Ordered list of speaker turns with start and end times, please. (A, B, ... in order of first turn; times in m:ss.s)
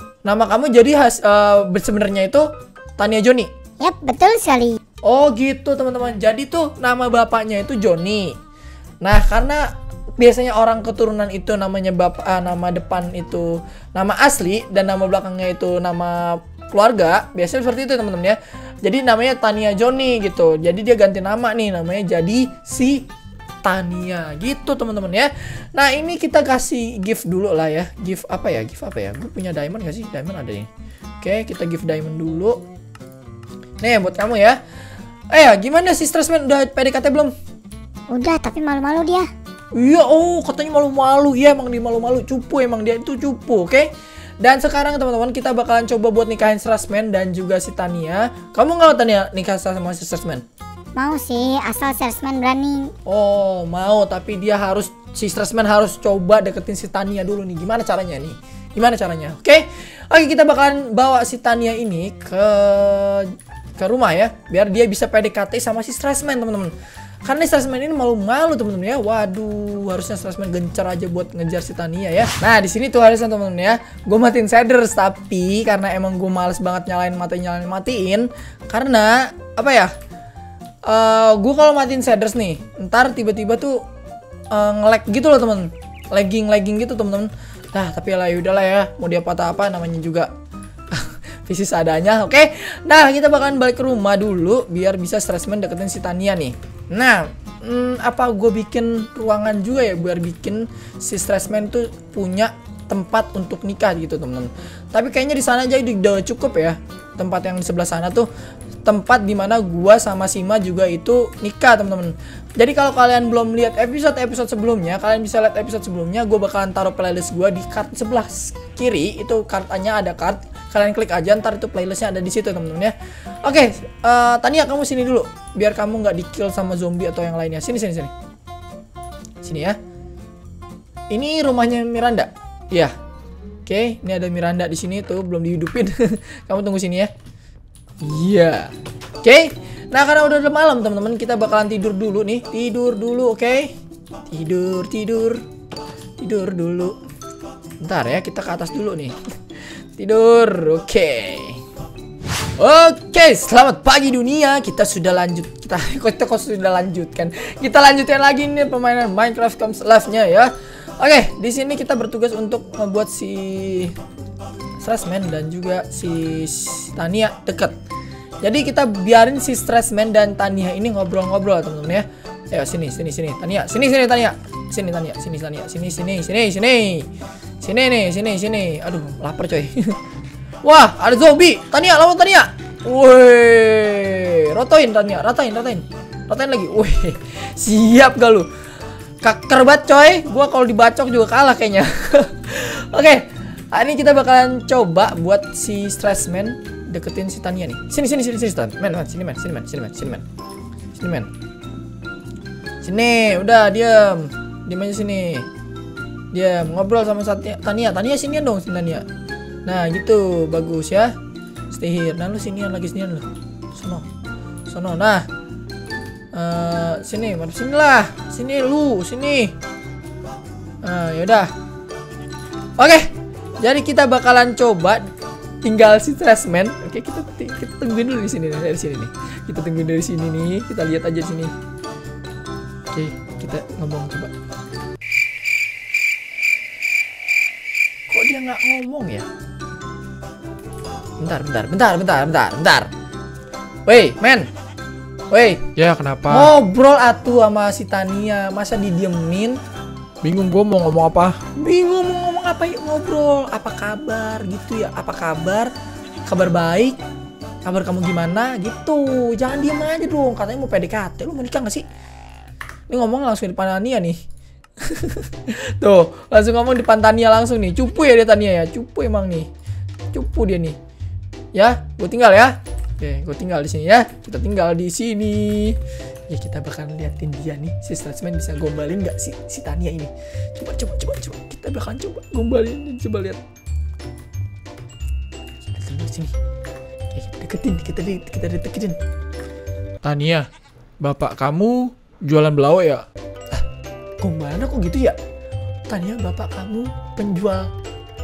0:00.2-0:03.5 A
0:03.8-0:04.8 B
0:05.0-0:08.4 A
0:09.0-0:23.1 A
0:23.6-0:30.7 A
0:31.2-0:32.6 A
0:33.8-0:34.6 A
0:35.3-0:37.3 A
0:38.1-0:39.3 B
0:39.7-0:50.4 A
0:51.0-0:52.9 B
0:53.1-1:06.7 A
1:07.2-1:19.9 A
1:20.9-1:23.8 A
1:24.5-1:30.3 A
1:30.9-1:48.3 A
1:48.8-2:08.1 A
2:09.4-2:09.8 A
2:11.1-2:12.9 A
2:13.7-2:17.1 A
2:18.0-2:23.8 A
2:24.3-2:25.4 A
2:26.2-2:27.0 A
2:27.8-2:29.2 A
2:30.0-2:31.6 A
2:32.6-2:44.0 A
2:44.8-2:47.8 A
2:48.4-2:57.1 A
2:57.6-3:00.0 A
3:00.6-3:08.5 A
3:09.2-3:20.2 A
3:20.9-3:21.3 A
3:22.8-3:25.5 A
3:26.3-3:29.1 A
3:29.6-3:31.1 A
3:31.7-3:34.0 A
3:34.7-3:35.3 A
3:36.3-3:39.6 A
3:40.8-3:41.5 A
3:42.8-3:45.0 A
3:45.6-3:51.5 A
3:52.9-3:54.3 A
3:58.1-3:59.3 A
4:01.2-4:02.9 A
4:03.9-4:04.5 A
4:05.3-4:05.7 A
4:05.8-4:06.5 C
4:06.3-4:09.6 A
4:10.2-4:11.4 C
4:11.6-4:15.7 A
4:16.3-4:17.0 A
4:17.6-4:21.8 A
4:22.9-4:24.2 A
4:24.8-4:29.5 A
4:30.1-4:30.8 A
4:31.5-4:35.8 A
4:36.3-4:43.4 A
4:45.6-4:46.3 A
4:47.1-4:49.0 A
4:50.0-4:50.5 A
4:51.0-4:53.6 A
4:54.2-4:55.2 A
4:55.9-4:57.7 A